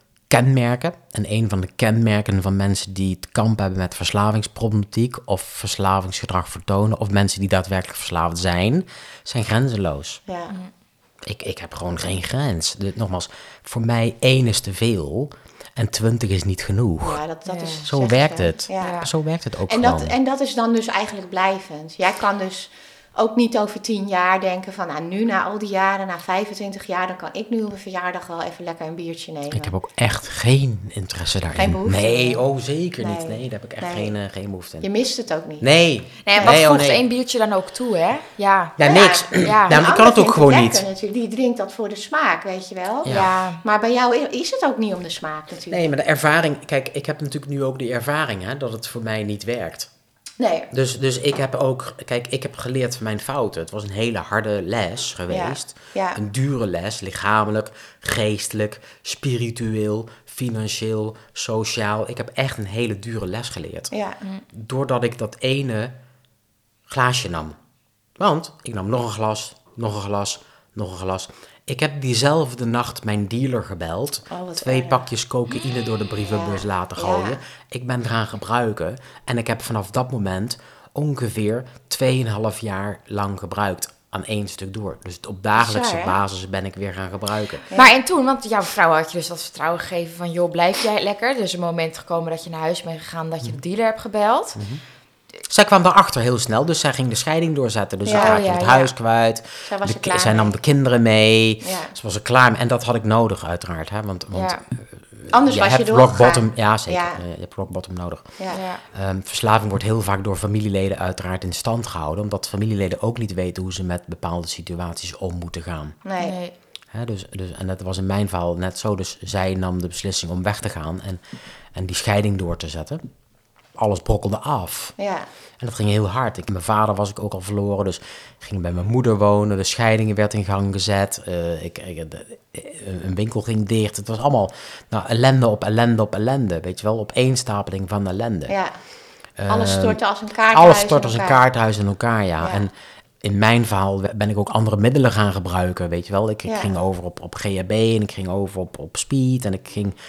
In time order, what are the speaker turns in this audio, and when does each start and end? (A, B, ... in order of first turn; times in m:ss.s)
0:00.3-0:10.2 A
0:10.3-0:10.6 B
0:11.3-0:17.2 A
0:17.0-0:19.0 B
0:17.5-0:17.9 C
0:17.8-0:20.2 A
0:18.8-0:19.1 C
0:19.7-0:29.7 B
0:29.5-0:34.9 A
0:31.6-0:32.4 B
0:33.0-0:34.1 B
0:34.8-0:35.7 B
0:35.6-0:37.0 A
0:36.2-0:38.8 C
0:36.3-0:36.6 B
0:38.8-0:40.8 A
0:38.8-0:45.8 B
0:39.4-0:39.8 C
0:43.0-0:43.3 A
0:43.1-0:43.6 C
0:45.7-0:49.9 A
0:50.4-0:50.7 B
0:50.7-1:03.9 A
0:55.3-0:56.2 B
1:03.9-1:04.2 B
1:04.5-1:06.0 A
1:06.9-1:07.6 A
1:08.2-1:27.7 A
1:14.3-1:15.0 B
1:16.3-1:17.4 B
1:25.6-1:26.2 B
1:27.7-1:34.6 C
1:34.6-1:34.8 A
1:35.5-1:48.4 A
1:38.0-1:38.7 B
1:38.1-1:38.9 C
1:39.7-1:40.6 B
1:41.6-1:41.9 B
1:44.3-1:44.6 C
1:45.3-1:47.2 B
1:48.4-1:48.6 B
1:48.5-1:48.8 C
1:48.9-1:56.0 A
1:56.0-1:56.4 B
1:56.2-1:56.5 C
1:56.9-2:01.2 A
2:01.7-2:03.0 A
2:03.8-2:05.0 A
2:05.0-2:05.3 B
2:05.6-2:18.6 A
2:18.5-2:18.8 B
2:19.4-2:30.0 A
2:19.5-2:21.4 B
2:26.4-2:26.7 B